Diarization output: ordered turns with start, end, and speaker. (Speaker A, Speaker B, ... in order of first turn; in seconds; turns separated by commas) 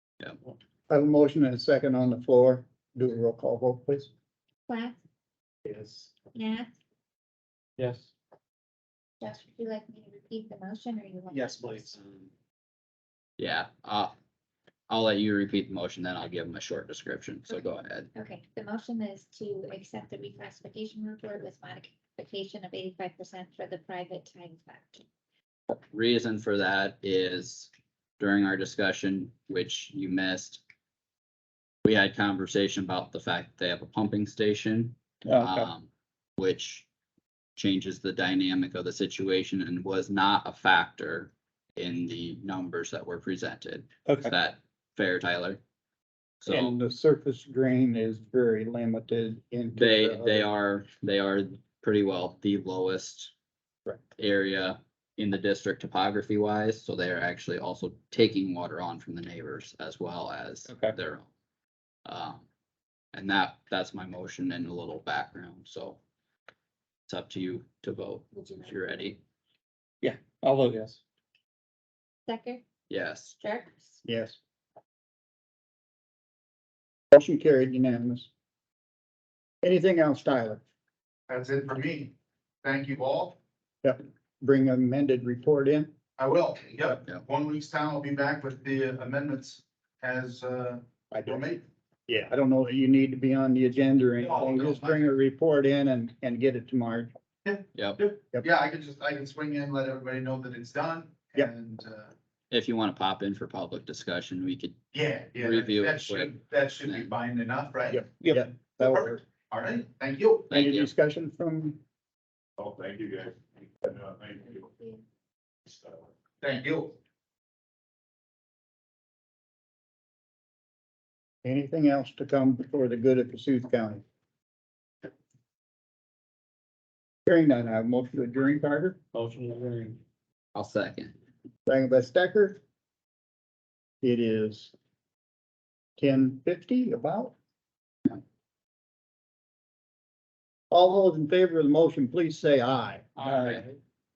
Speaker A: 0.9-4.1, Speaker B: 4.7-5.0, Speaker C: 5.7-6.1, Speaker B: 6.3-6.7, Speaker C: 7.8-8.1, Speaker B: 9.2-12.0, Speaker C: 11.3-12.3, Speaker D: 13.4-14.1, Speaker D: 14.9-18.1, Speaker B: 18.1-25.0, Speaker D: 25.7-30.6, Speaker D: 31.8-36.9, Speaker A: 35.2-35.7, Speaker D: 37.6-45.6, Speaker D: 46.4-46.8, Speaker A: 46.5-50.5, Speaker D: 49.8-53.3, Speaker D: 54.1-61.3, Speaker C: 60.7-61.0, Speaker D: 62.0-62.5, Speaker D: 63.1-66.0, Speaker D: 67.1-69.2, Speaker B: 68.3-69.1, Speaker C: 70.0-71.0, Speaker B: 72.3-72.6, Speaker D: 72.9-73.4, Speaker B: 73.4-74.0, Speaker A: 74.0-74.4, Speaker A: 77.1-78.3, Speaker A: 79.6-80.6, Speaker E: 81.3-83.4, Speaker A: 83.8-85.9, Speaker E: 86.2-91.6, Speaker A: 91.2-91.4, Speaker A: 92.1-97.1, Speaker E: 94.2-95.1, Speaker E: 97.4-102.1, Speaker D: 97.7-98.0, Speaker D: 102.5-104.8, Speaker E: 104.9-108.1, Speaker D: 105.4-107.1, Speaker A: 107.9-109.2, Speaker C: 108.2-108.5, Speaker E: 108.8-110.5, Speaker D: 110.5-110.9, Speaker A: 110.5-111.8, Speaker C: 112.9-113.3, Speaker E: 116.4-117.0, Speaker A: 121.4-124.0, Speaker A: 127.2-129.0, Speaker C: 129.1-130.0, Speaker D: 130.6-131.2, Speaker A: 131.7-132.6, Speaker A: 134.0-134.7, Speaker A: 136.0-137.3, Speaker A: 140.7-143.6, Speaker C: 143.2-143.6, Speaker D: 143.2-143.6